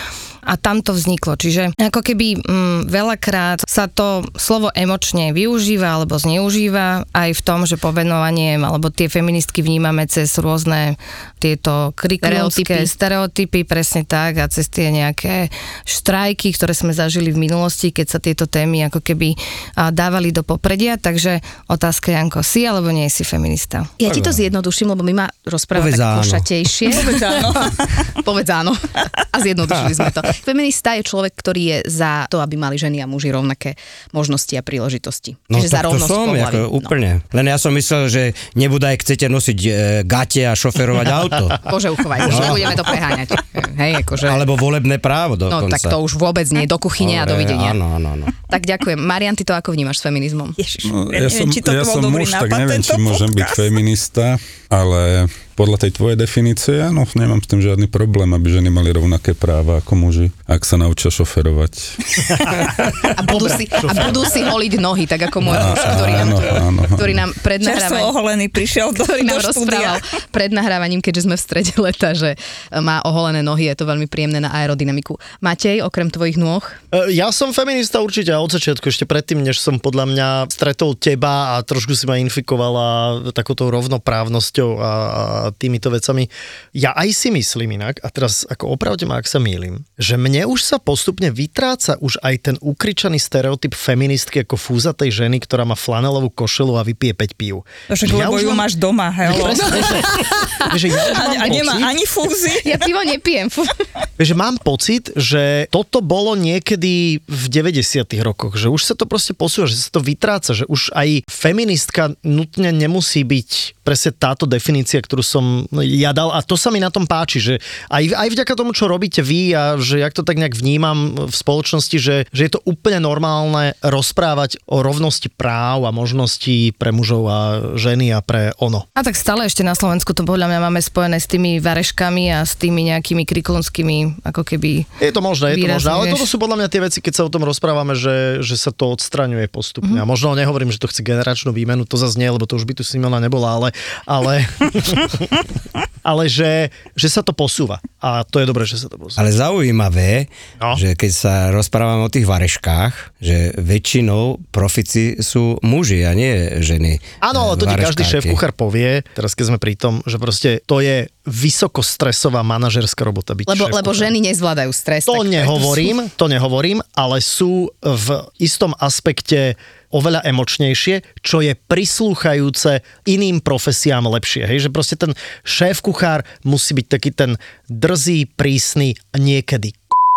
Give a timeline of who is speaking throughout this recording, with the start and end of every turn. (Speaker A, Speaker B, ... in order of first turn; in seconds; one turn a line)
Speaker A: 0.4-23.9
Speaker B: 12.2-12.9
Speaker B: 24.0-36.9
Speaker C: 24.0-24.4
Speaker C: 25.7-26.4
Speaker D: 27.1-27.8
Speaker C: 35.5-43.0
Speaker B: 41.6-44.5
Speaker C: 44.2-46.0
Speaker B: 45.5-47.8
Speaker C: 47.0-48.3
Speaker B: 48.5-50.6
Speaker D: 50.6-53.8
Speaker E: 50.8-62.5
Speaker B: 63.1-68.1
Speaker F: 63.2-64.5
Speaker E: 65.5-67.2
Speaker D: 67.6-70.0
Speaker B: 68.9-76.8
Speaker F: 76.9-98.7
Speaker D: 97.9-100.3
Speaker F: 99.2-102.0
Speaker D: 100.9-102.8
Speaker B: 102.6-103.8
Speaker F: 104.2-128.8
Speaker A: 128.9-134.9
Speaker F: 135.0-145.3
Speaker A: 135.5-136.3
Speaker F: 146.0-149.2
Speaker C: 149.2-158.4
Speaker F: 157.2-164.1
Speaker B: 163.5-165.9
Speaker F: 165.1-179.9